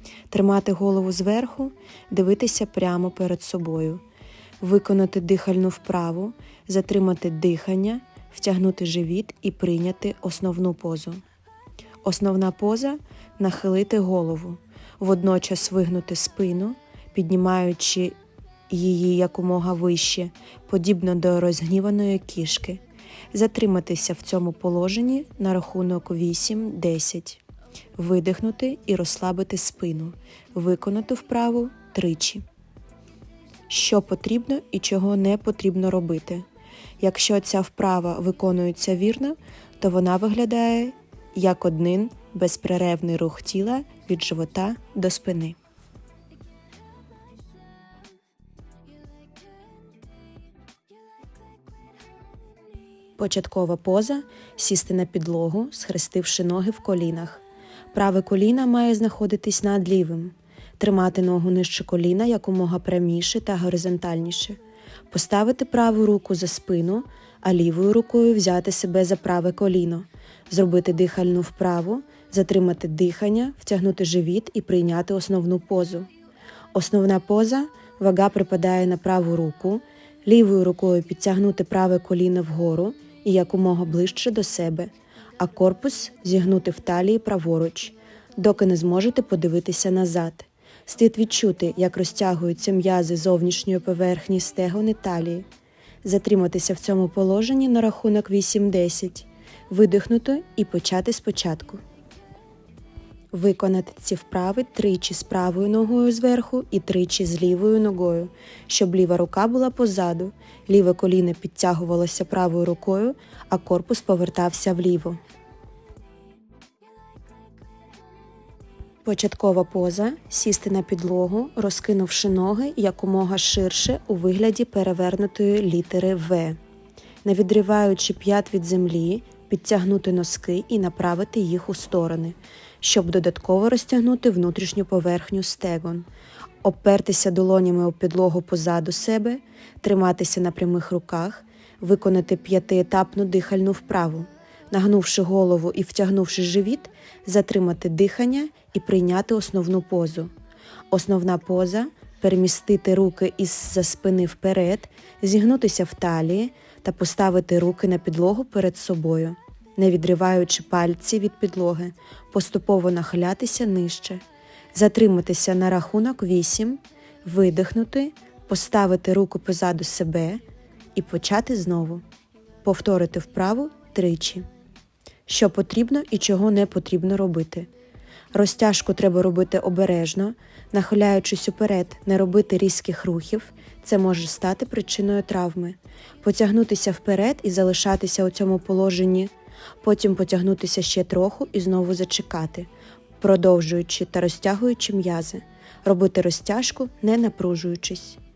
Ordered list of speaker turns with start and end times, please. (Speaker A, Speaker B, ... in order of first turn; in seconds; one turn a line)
Speaker A: 0.3-4.0
Speaker A: 4.6-11.2
Speaker A: 12.0-18.1
Speaker A: 18.7-22.8
Speaker A: 23.3-27.4
Speaker A: 27.9-32.4
Speaker A: 33.7-36.4
Speaker A: 37.0-45.6
Speaker A: 53.2-64.6
Speaker A: 65.1-76.1
Speaker A: 76.7-95.5
Speaker A: 96.0-101.8
Speaker A: 103.3-115.2
Speaker A: 119.0-126.6
Speaker A: 127.2-136.1
Speaker A: 136.6-150.3
Speaker A: 150.9-164.2
Speaker A: 164.7-170.4
Speaker A: 170.9-172.0
Speaker A: 172.6-174.4
Speaker A: 175.3-177.7
Speaker A: 178.3-189.3
Speaker A: 189.8-192.7
Speaker A: 193.2-198.2